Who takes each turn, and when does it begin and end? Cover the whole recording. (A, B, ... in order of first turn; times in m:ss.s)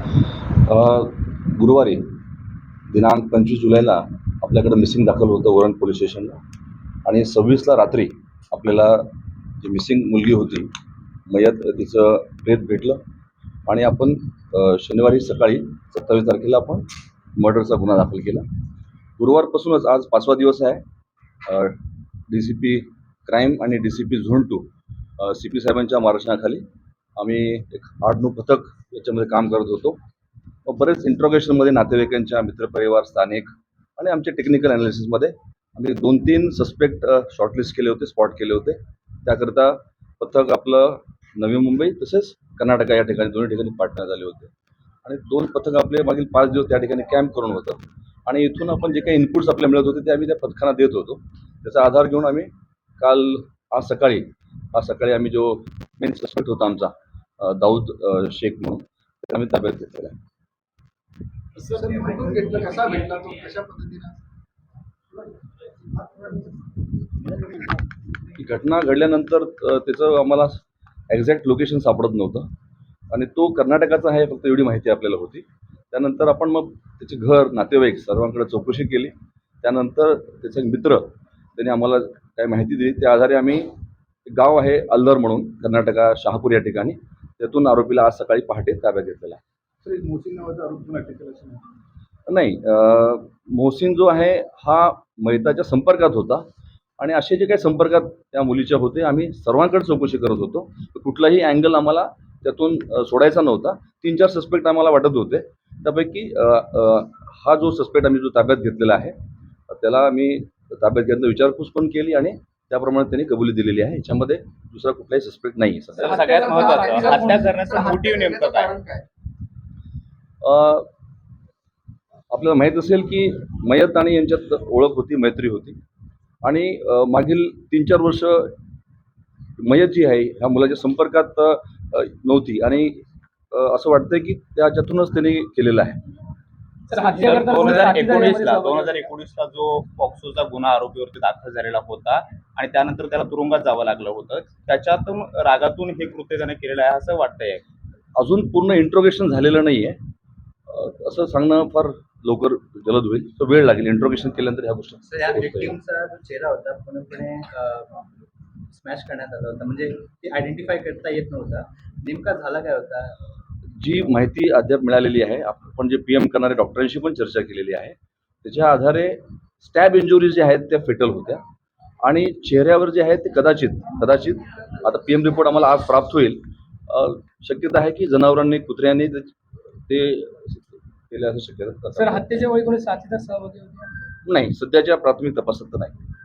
0:00.6-0:02.0 A
0:02.9-0:06.4 A
0:07.1-0:09.1 A
0:09.6-0:10.7 A
0:11.3-0:13.0 A
0:13.7-0:18.5 A
0:19.2-0:20.8 A
0:21.5-0:21.8 A
0:22.3-0:26.6 A
0:27.2-0:30.0 A
0:30.7-0:44.5 A
0:45.0-1:00.2 A
1:01.6-1:04.2 B
1:06.0-1:06.5 B
1:07.3-1:07.6 B
1:08.4-1:12.5 A
1:13.1-1:23.7 A
1:24.3-1:29.4 A
1:29.8-1:31.8 B
1:32.3-1:36.5 A
1:37.0-1:49.2 A
1:49.7-1:56.4 A
1:56.0-1:58.7 C
1:56.1-1:57.5 D
1:56.2-1:59.0 B
2:00.4-2:00.9 A
2:02.3-2:05.8 A
2:06.4-2:08.6 A
2:09.6-2:16.0 A
2:16.9-2:18.9 D
2:17.0-2:27.6 C
2:28.2-2:30.0 A
2:30.7-2:35.8 A
2:35.1-2:38.1 E
2:38.7-2:43.2 E
2:43.8-2:51.4 A
2:52.0-2:59.3 A
2:59.9-3:02.2 A
3:01.9-3:03.9 D
3:04.3-3:06.0 A